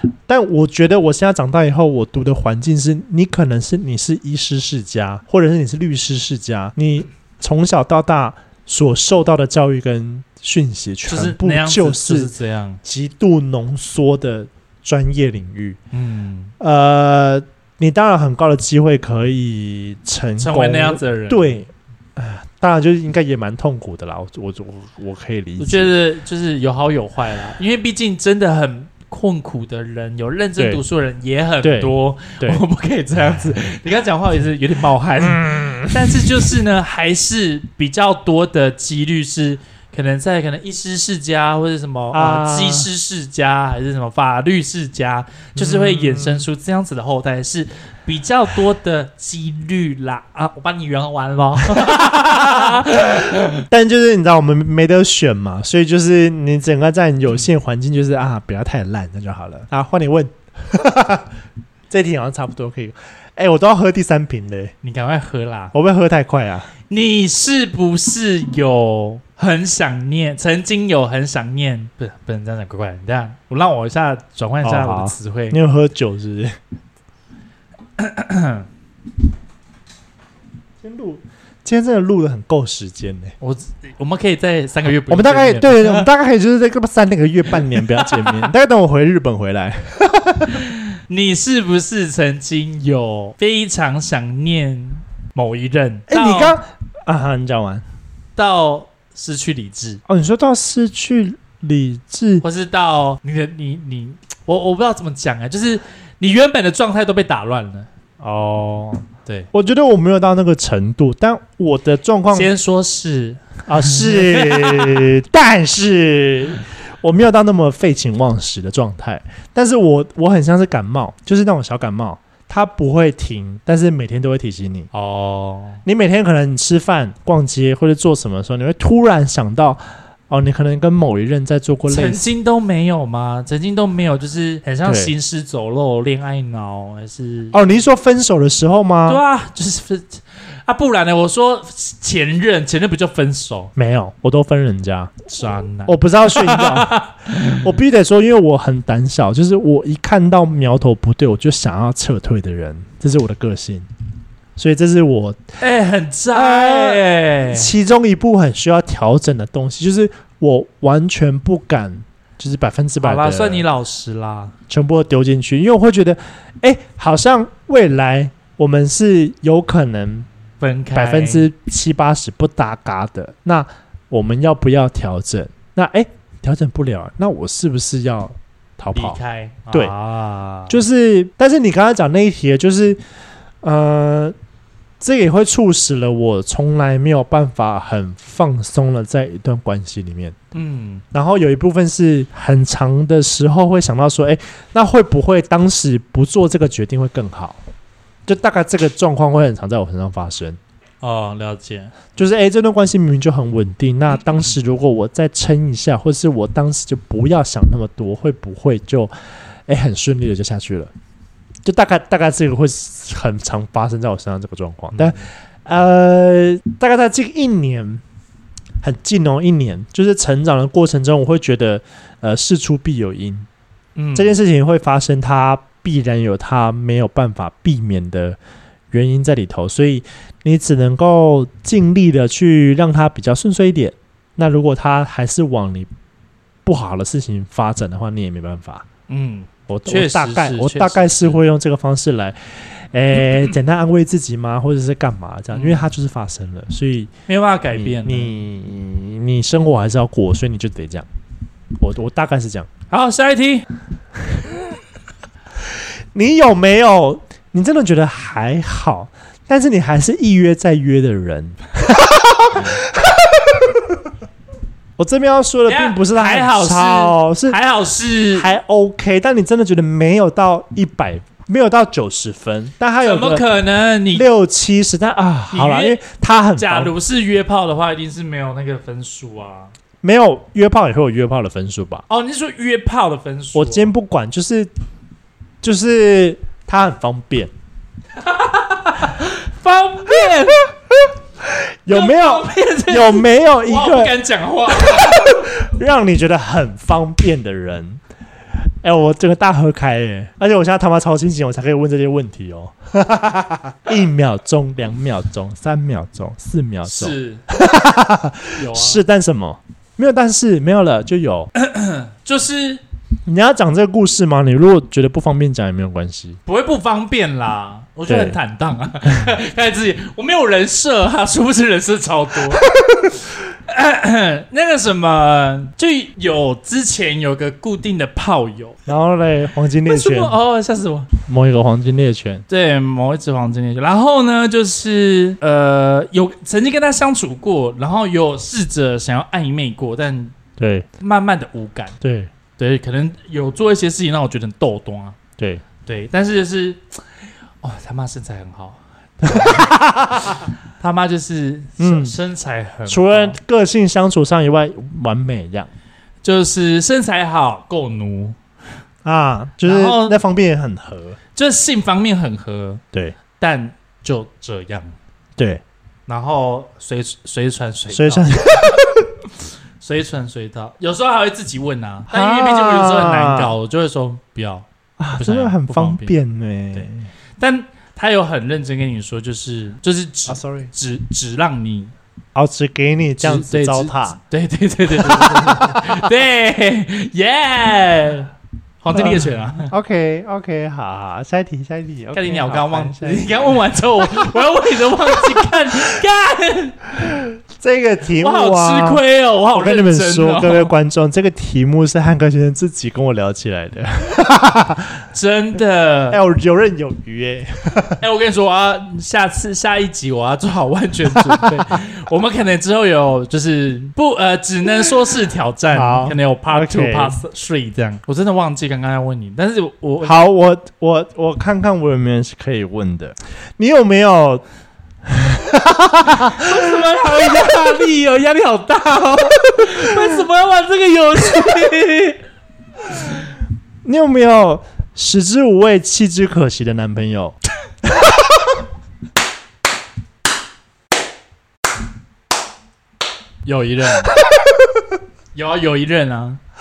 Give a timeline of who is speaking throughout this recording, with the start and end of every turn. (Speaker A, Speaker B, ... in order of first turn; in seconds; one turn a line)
Speaker A: 0.3-12.3
Speaker B: 11.1-12.8
Speaker A: 12.8-15.8
Speaker B: 15.9-16.5
Speaker A: 16.6-25.9
Speaker B: 20.4-21.6
Speaker B: 25.6-53.6
Speaker A: 31.6-32.6
Speaker A: 35.2-36.5
Speaker A: 42.1-42.9
Speaker A: 45.6-46.5
Speaker A: 51.7-61.3
Speaker A: 61.9-64.7
Speaker B: 64.8-65.7
Speaker A: 65.7-66.7
Speaker B: 66.9-75.6
Speaker A: 74.6-76.5
Speaker B: 78.0-78.7
Speaker A: 80.8-83.3
Speaker B: 83.4-86.1
Speaker A: 85.1-90.6
Speaker B: 87.5-88.5
Speaker B: 90.5-96.6
Speaker A: 96.1-97.8
Speaker B: 98.3-100.0
Speaker A: 100.1-102.4
Speaker B: 102.4-107.9
Speaker A: 108.2-112.5
Speaker B: 112.3-115.1
Speaker A: 113.7-124.9
Speaker B: 124.9-125.8
Speaker A: 125.8-132.2
Speaker B: 131.9-137.6
Speaker A: 134.8-135.1
Speaker A: 137.5-139.2
Speaker B: 139.1-143.7
Speaker A: 143.8-153.9
Speaker B: 145.3-147.7
Speaker A: 154.6-155.4
Speaker B: 155.6-157.7
Speaker A: 156.3-163.6
Speaker B: 163.0-164.5
Speaker A: 164.7-170.3
Speaker B: 170.6-171.5
Speaker A: 170.9-179.2
Speaker B: 178.9-180.8
Speaker A: 180.7-183.0
Speaker A: 183.6-184.3
Speaker A: 185.0-190.3
Speaker B: 190.5-191.0
Speaker A: 191.1-197.6
Speaker A: 198.3-200.6
Speaker B: 201.0-202.0
Speaker A: 202.2-209.1
Speaker A: 209.7-210.9
Speaker A: 211.6-218.0
Speaker B: 214.9-215.2
Speaker A: 218.8-223.5
Speaker B: 223.9-224.4
Speaker A: 224.1-228.4
Speaker A: 228.9-235.9
Speaker A: 236.7-238.8
Speaker B: 239.1-241.4
Speaker A: 239.7-247.1
Speaker B: 245.5-245.9
Speaker B: 247.3-248.3
Speaker A: 247.7-251.1
Speaker A: 251.8-252.7
Speaker B: 252.9-253.7
Speaker A: 256.1-263.8
Speaker A: 265.0-267.6
Speaker B: 265.7-268.5
Speaker A: 268.4-273.5
Speaker B: 273.0-274.2
Speaker A: 274.1-276.9
Speaker B: 275.5-276.0
Speaker B: 276.6-279.7
Speaker A: 280.0-282.1
Speaker B: 282.1-283.9
Speaker A: 283.5-284.7
Speaker A: 285.6-287.5
Speaker B: 288.1-290.7
Speaker A: 291.4-294.1
Speaker B: 291.9-295.5
Speaker A: 294.7-298.0
Speaker A: 298.8-311.5
Speaker B: 306.8-307.4
Speaker B: 308.6-309.0
Speaker B: 311.5-312.8
Speaker A: 313.2-316.4
Speaker B: 316.4-322.7
Speaker A: 318.1-318.4
Speaker A: 322.8-323.1
Speaker B: 323.6-328.8
Speaker A: 328.9-330.3
Speaker B: 329.8-331.1
Speaker A: 331.3-332.4
Speaker B: 332.5-340.3
Speaker A: 340.6-340.9
Speaker B: 341.0-342.0
Speaker A: 342.0-342.3
Speaker B: 342.6-345.2
Speaker A: 345.4-345.6
Speaker B: 345.8-349.7
Speaker A: 349.2-350.4
Speaker B: 350.8-353.4
Speaker A: 351.8-352.1
Speaker A: 352.9-355.7
Speaker B: 356.2-358.4
Speaker A: 359.0-361.2
Speaker B: 359.6-360.2
Speaker B: 361.4-362.8
Speaker B: 363.4-364.9
Speaker B: 366.1-368.9
Speaker A: 367.9-369.1
Speaker B: 369.8-374.6
Speaker A: 372.1-373.5
Speaker A: 375.0-377.1
Speaker B: 375.2-376.1
Speaker B: 377.4-381.9
Speaker A: 380.3-380.7
Speaker A: 382.3-384.2
Speaker B: 383.2-388.3
Speaker A: 384.9-386.1
Speaker B: 388.8-389.7
Speaker A: 388.9-394.3
Speaker B: 392.1-397.0
Speaker A: 397.1-399.0
Speaker B: 398.2-400.7
Speaker A: 399.5-404.9
Speaker B: 405.1-406.2
Speaker A: 406.1-408.0
Speaker B: 408.0-420.2
Speaker A: 411.1-411.5
Speaker A: 415.7-417.2
Speaker A: 420.0-424.4
Speaker A: 425.0-426.6
Speaker B: 426.2-432.2
Speaker A: 429.5-430.1
Speaker A: 433.8-437.4
Speaker B: 443.4-444.2
Speaker B: 445.3-446.4